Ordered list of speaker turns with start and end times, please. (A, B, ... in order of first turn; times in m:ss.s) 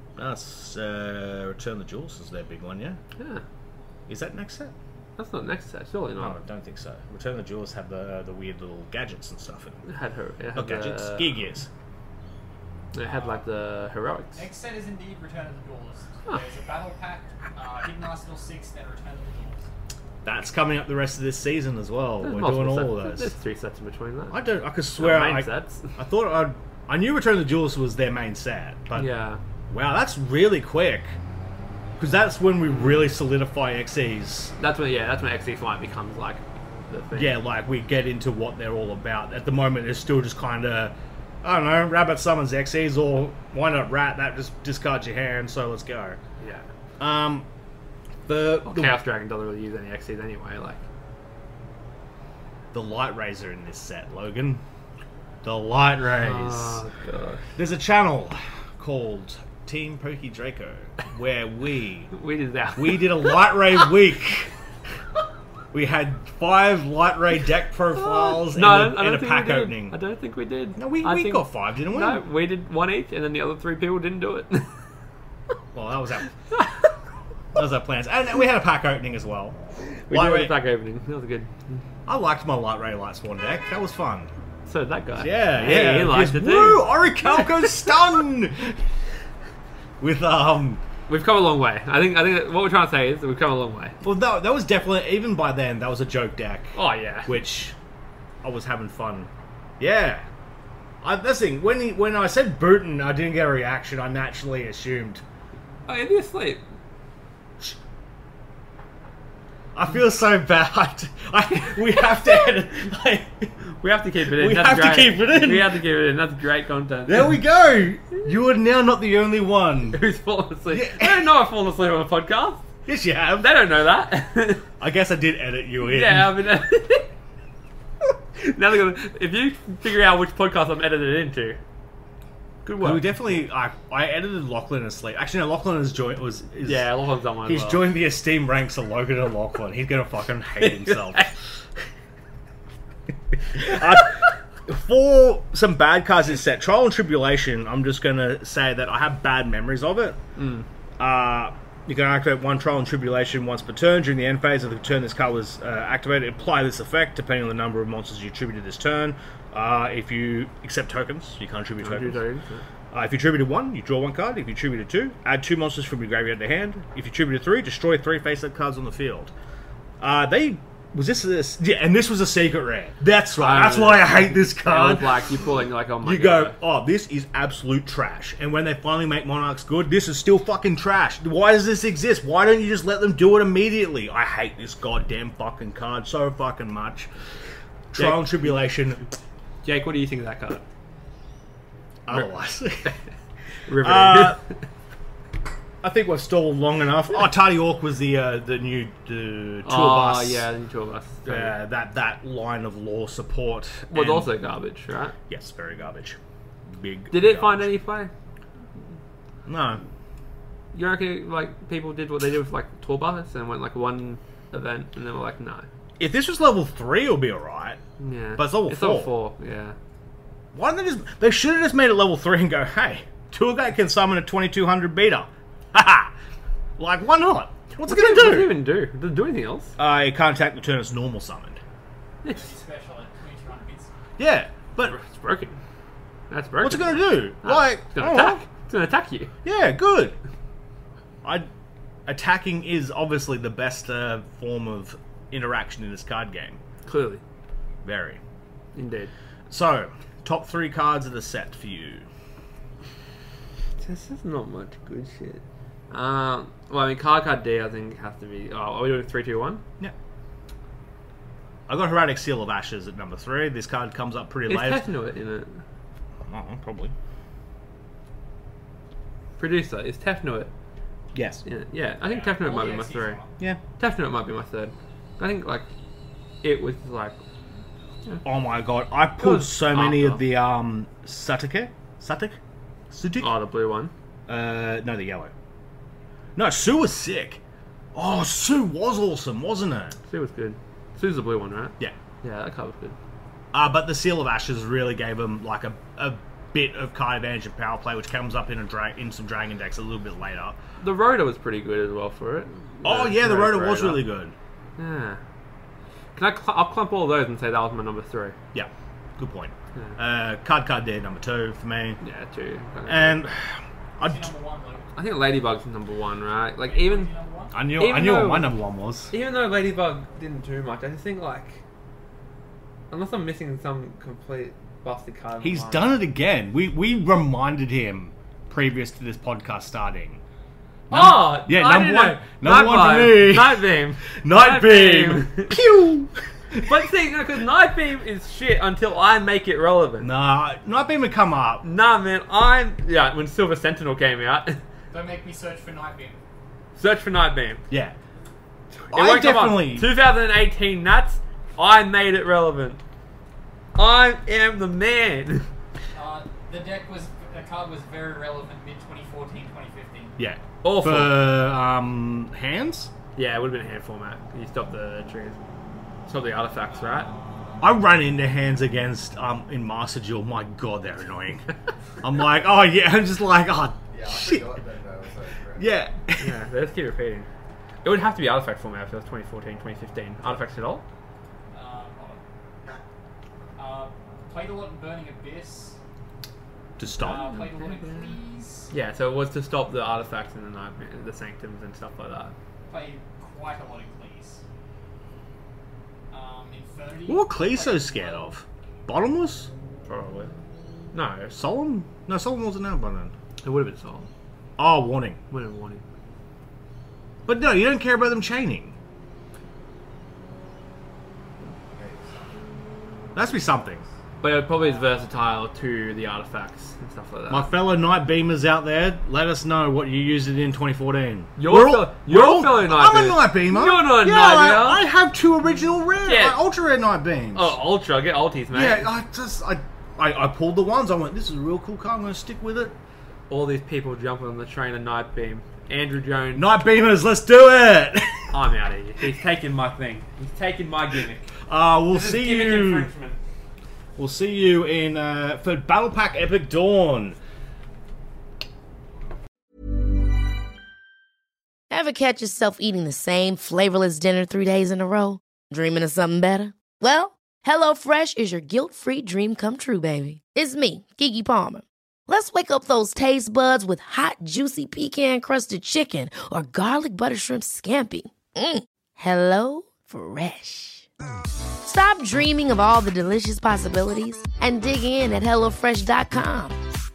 0:00.2-0:03.0 A
0:03.2-0:03.4 B
0:04.1-0:04.7 A
0:05.2-0:06.4 B
0:06.2-0:09.8 A
0:09.9-0:11.3 B
0:10.5-0:11.7 A
0:12.9-0:14.4 B
0:13.1-0:13.4 C
0:14.4-0:19.6 C
0:20.2-0:23.3 A
0:22.2-0:25.9 B
0:24.3-0:29.1 A
0:28.9-0:29.4 B
0:29.7-0:31.2 A
0:32.0-0:34.5 A
0:32.6-0:33.1 B
0:34.6-0:37.4 B
0:37.1-0:46.2 A
0:46.4-0:46.7 B
0:47.0-0:47.5 A
0:48.2-0:49.0 A
0:48.6-0:50.8 B
0:52.7-0:54.6 A
0:55.4-0:56.8 A
0:56.1-0:57.4 B
0:57.6-1:02.1 A
1:02.1-1:03.5 B
1:02.7-1:04.5 A
1:05.7-1:10.0 A
1:07.9-1:14.7 B
1:10.7-1:12.2 A
1:15.7-1:16.3 A
1:17.5-1:19.6 A
1:19.9-1:21.8 B
1:20.1-1:20.5 A
1:22.0-1:24.3 A
1:24.6-1:27.7 B
1:25.1-1:28.8 A
1:30.0-1:30.8 A
1:31.1-1:34.0 B
1:34.0-1:36.7 A
1:36.7-1:37.3 B
1:37.2-1:37.8 A
1:38.4-1:40.3 A
1:41.0-1:45.2 A
1:45.9-1:46.6 B
1:49.7-1:53.5 A
1:53.7-1:57.4 B
1:54.3-1:55.8 A
1:57.0-2:00.0 A
1:59.9-2:02.6 B
2:00.7-2:01.3 A
2:02.8-2:03.5 A
2:03.4-2:04.6 B
2:04.8-2:06.3 A
2:05.8-2:07.1 B
2:08.0-2:11.6 B
2:12.6-2:13.2 B
2:12.8-2:16.9 A
2:16.6-2:17.8 B
2:17.4-2:21.3 A
2:20.6-2:21.3 B
2:23.5-2:30.2 A
2:30.4-2:30.6 B
2:31.0-2:42.2 A
2:41.8-2:42.6 B
2:42.9-2:49.3 A
2:50.0-2:55.4 A
2:53.4-2:56.6 B
2:56.0-3:07.1 A
3:07.9-3:09.0 A
3:08.0-3:08.7 B
3:09.6-3:10.6 B
3:12.0-3:13.0 A
3:13.7-3:14.6 B
3:13.8-3:14.4 A
3:15.8-3:20.4 A
3:19.6-3:21.6 B
3:21.2-3:24.3 A
3:23.9-3:25.2 B
3:25.3-3:26.2 A
3:26.7-3:27.7 A
3:27.1-3:28.1 B
3:29.5-3:29.8 A
3:30.7-3:35.7 B
3:36.0-3:37.8 A
3:38.0-3:39.7 B
3:38.3-3:39.1 A
3:40.5-3:46.1 A
3:46.8-3:48.6 A
3:47.8-3:49.7 B
3:49.8-3:51.6 A
3:52.3-3:53.9 C
3:54.2-3:55.0 A
3:54.8-3:55.6 B
3:56.3-3:59.3 B
3:56.6-3:58.4 A
3:59.4-4:00.2 A
4:02.0-4:06.6 A
4:06.8-4:07.2 B
4:07.8-4:08.2 A
4:08.7-4:09.1 B
4:09.5-4:12.1 A
4:13.8-4:19.6 B
4:21.7-4:24.9 A
4:24.5-4:25.6 B
4:26.2-4:26.9 A
4:29.4-4:30.5 B
4:31.1-4:31.4 A
4:31.4-4:33.2 B
4:32.0-4:33.3 C
4:33.7-4:35.7 B
4:36.4-4:37.2 B
4:38.2-4:42.4 A
4:39.2-4:40.2 B
4:42.9-4:43.3 A
4:43.2-4:43.9 B
4:44.3-4:45.3 A
4:46.4-4:47.4 A
4:47.9-4:50.0 A
4:50.1-4:53.0 B
4:53.5-5:00.6 A
5:00.8-5:04.0 B
5:02.8-5:04.3 A
5:04.8-5:05.2 B
5:06.1-5:08.3 B
5:08.5-5:12.0 A
5:12.0-5:13.3 B
5:12.8-5:13.5 A
5:14.0-5:14.3 A
5:14.1-5:14.8 C
5:15.0-5:17.1 B
5:16.6-5:17.5 C
5:17.5-5:19.1 A
5:17.7-5:21.6 B
5:22.9-5:26.0 B
5:25.4-5:30.2 A
5:30.9-5:36.7 A
5:30.9-5:35.6 B
5:36.6-5:40.1 B
5:40.0-5:41.6 A
5:41.6-5:44.6 B
5:44.9-5:46.2 C
5:46.8-5:47.6 B
5:47.7-5:47.9 A
5:48.7-5:52.8 B
5:48.9-5:49.9 A
5:53.8-5:55.5 B
5:55.9-6:00.2 C
6:00.2-6:02.9 A
6:00.6-6:01.3 B
6:03.2-6:05.4 B
6:06.0-6:07.1 B
6:06.8-6:07.6 C
6:07.6-6:11.4 A
6:12.0-6:14.6 A
6:13.9-6:15.6 D
6:15.5-6:16.4 A
6:16.2-6:17.3 B
6:17.8-6:20.8 B
6:21.5-6:22.2 C
6:23.6-6:25.8 C
6:26.8-6:27.3 A
6:27.0-6:28.2 B
6:27.1-6:28.7 C
6:28.7-6:32.3 B
6:32.7-6:34.4 C
6:36.1-6:38.2 C
6:37.1-6:39.5 A
6:39.8-6:40.4 B
6:40.9-6:41.3 B
6:41.3-6:43.1 A
6:43.4-6:44.1 B
6:44.6-6:45.2 A
6:45.3-6:45.8 B
6:47.3-6:48.8 A
6:51.8-6:52.2 D
6:53.1-6:53.8 A
6:54.2-6:57.6 B
6:57.3-7:07.6 A
7:01.4-7:04.9 B
7:06.0-7:06.4 B
7:07.3-7:08.9 B
7:08.5-7:12.7 A
7:13.3-7:16.5 B
7:16.3-7:18.3 A
7:18.3-7:21.3 B
7:21.5-7:22.9 A
7:21.9-7:23.2 B
7:24.0-7:27.2 A
7:31.7-7:50.9 E
7:51.6-7:56.6 E